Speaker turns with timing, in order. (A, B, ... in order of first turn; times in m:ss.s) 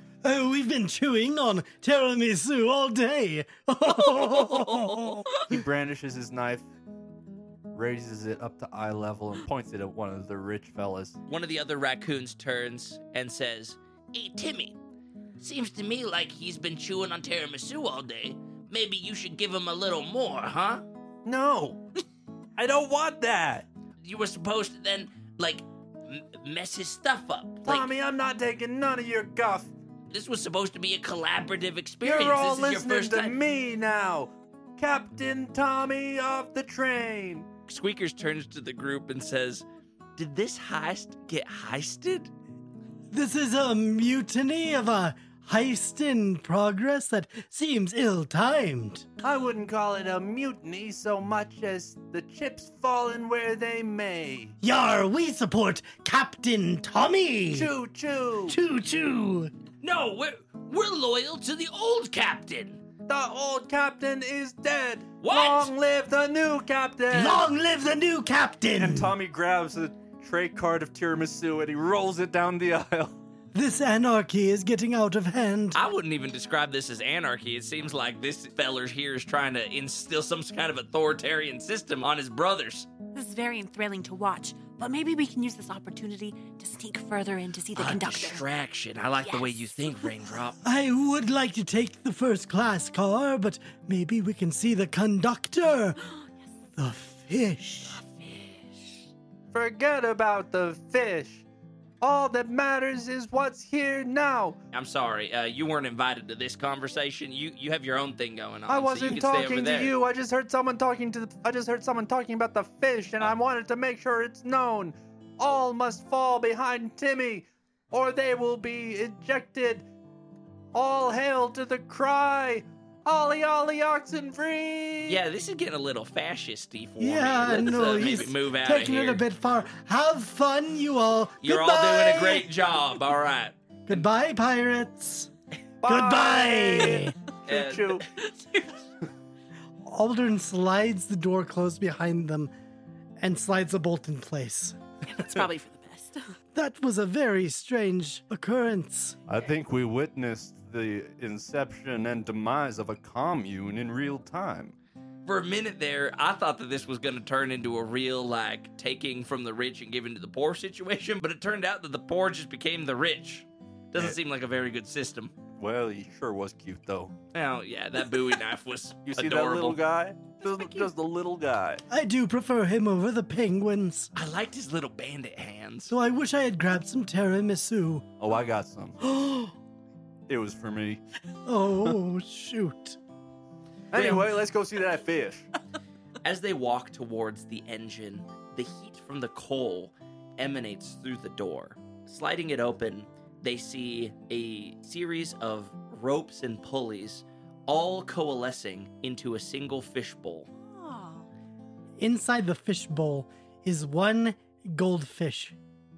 0:00.2-0:05.4 A
0:05.4-0:06.7 B
0:07.7-0:11.2 B
0:11.3-0:14.8 C
0:15.4-0:20.8 C
0:21.2-0:21.8 B
0:22.6-0:23.6 B
0:24.0-0:27.9 C
0:27.6-0:29.7 B
0:30.1-0:33.4 C
0:32.0-0:37.4 B
0:37.7-0:39.6 C
0:40.2-0:42.3 C
0:43.1-0:49.1 A
0:49.2-0:54.5 B
0:54.6-0:57.7 A
0:57.5-0:58.6 B
0:58.5-0:59.5 A
0:59.8-1:02.8 C
1:03.1-1:07.4 B
1:05.2-1:05.7 C
1:07.1-1:09.1 A
1:08.8-1:13.2 B
1:13.5-1:15.8 A
1:15.7-1:22.9 C
1:23.1-1:28.4 D
1:27.7-1:30.6 C
1:29.2-1:30.1 D
1:30.6-1:36.0 A
1:36.8-1:38.0 A
1:39.5-1:41.4 B
1:42.0-1:44.6 B
1:44.7-1:49.9 C
1:48.7-1:59.8 B
2:00.7-2:05.2 B
2:05.1-2:09.2 C
2:07.0-2:12.5 A
2:11.4-2:14.0 C
2:13.9-2:15.3 A
2:15.8-2:18.0 B
2:15.8-2:17.1 A
2:17.5-2:18.0 C
2:18.2-2:18.7 D
2:19.8-2:22.5 A
2:23.2-2:24.8 A
2:25.0-2:26.3 D
2:26.5-2:29.2 A
2:29.3-2:34.7 B
2:35.2-2:45.3 C
2:45.6-2:47.1 B
2:47.3-2:49.8 C
2:49.0-2:51.8 B
2:50.4-2:50.9 D
2:51.9-2:54.1 A
2:54.1-2:55.9 C
2:55.9-2:58.0 A
2:58.2-2:59.0 B
2:59.0-2:59.5 A
3:00.3-3:01.0 B
3:01.4-3:03.0 A
3:03.9-3:05.4 B
3:06.2-3:20.5 C
3:20.6-3:21.3 D
3:22.0-3:25.6 A